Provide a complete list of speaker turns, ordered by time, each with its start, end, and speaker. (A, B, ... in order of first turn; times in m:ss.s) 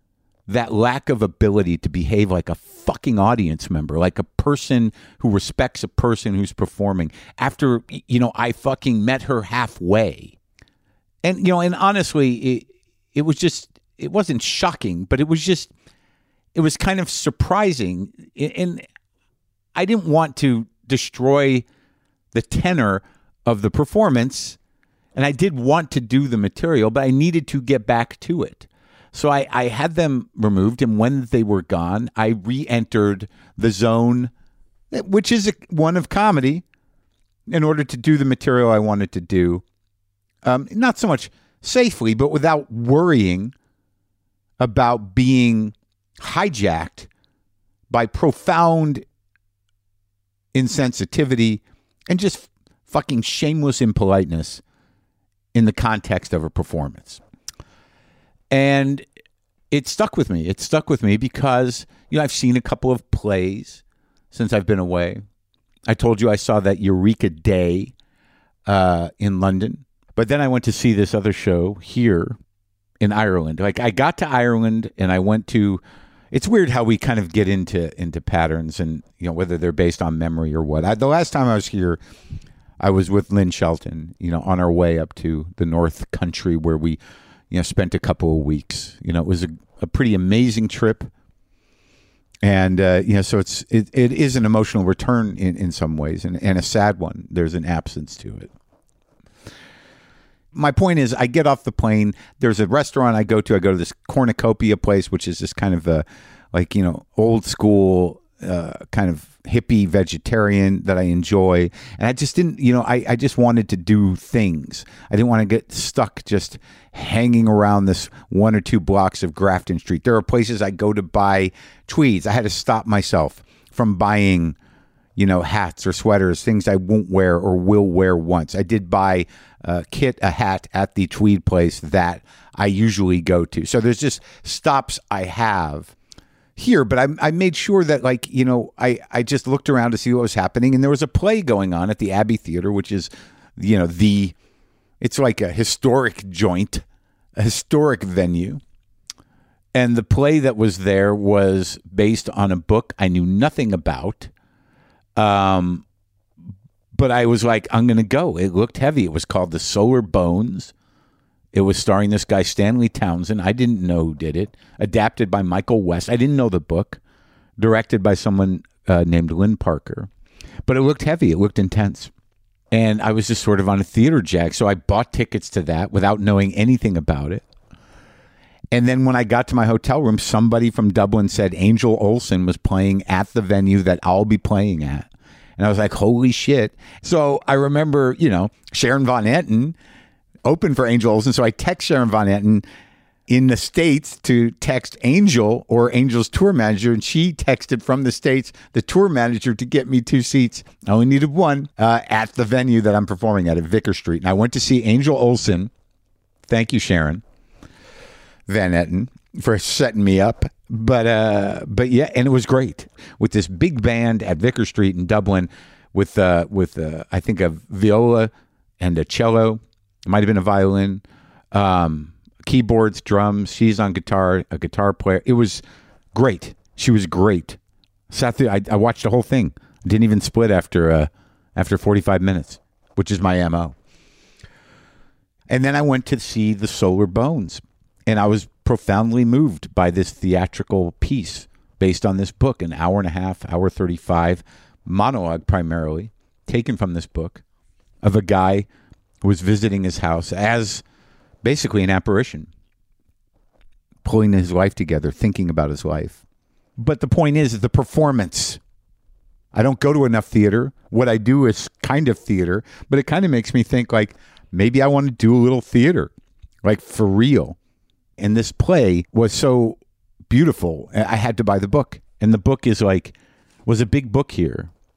0:00.5-0:10.4 A
0:11.2-0:15.7 A
0:16.5-0:18.8 A
0:19.8-0:21.6 A
0:22.3-0:24.6 A
0:25.1-0:34.3 A
0:34.9-0:36.6 A
0:37.5-0:39.6 A
0:40.4-0:43.5 A
0:44.6-0:47.1 A
0:47.9-0:49.0 A
0:50.5-0:54.6 A
0:55.5-0:57.2 A
0:58.5-0:59.0 A
0:59.7-1:05.2 A
1:05.9-1:07.9 A
1:08.7-1:12.4 A
1:13.0-1:22.0 A
1:22.8-1:27.0 A
1:27.5-1:31.1 A
1:32.4-1:38.5 A
1:40.5-2:04.6 A
2:05.2-2:15.9 A
2:16.6-2:24.4 A
2:25.0-2:26.8 A
2:27.4-2:28.6 A
2:29.8-2:34.3 A
2:35.2-2:35.8 A
2:36.9-2:40.7 A
2:41.5-2:47.0 A
2:47.6-2:50.1 A
2:50.7-2:52.1 A
2:52.7-2:57.4 A
2:58.7-3:09.8 A
3:10.4-3:12.6 A
3:13.3-3:25.7 A
3:26.5-3:27.2 A
3:28.5-3:47.6 A
3:48.1-3:53.8 A
3:55.5-4:07.4 A
4:08.0-4:08.7 A
4:09.2-4:10.8 A
4:11.4-4:12.5 A
4:14.0-4:16.2 A
4:16.8-4:18.6 A
4:19.5-4:26.1 A
4:26.6-4:27.6 A
4:28.2-4:29.8 A
4:30.3-4:33.1 A
4:33.6-4:34.7 A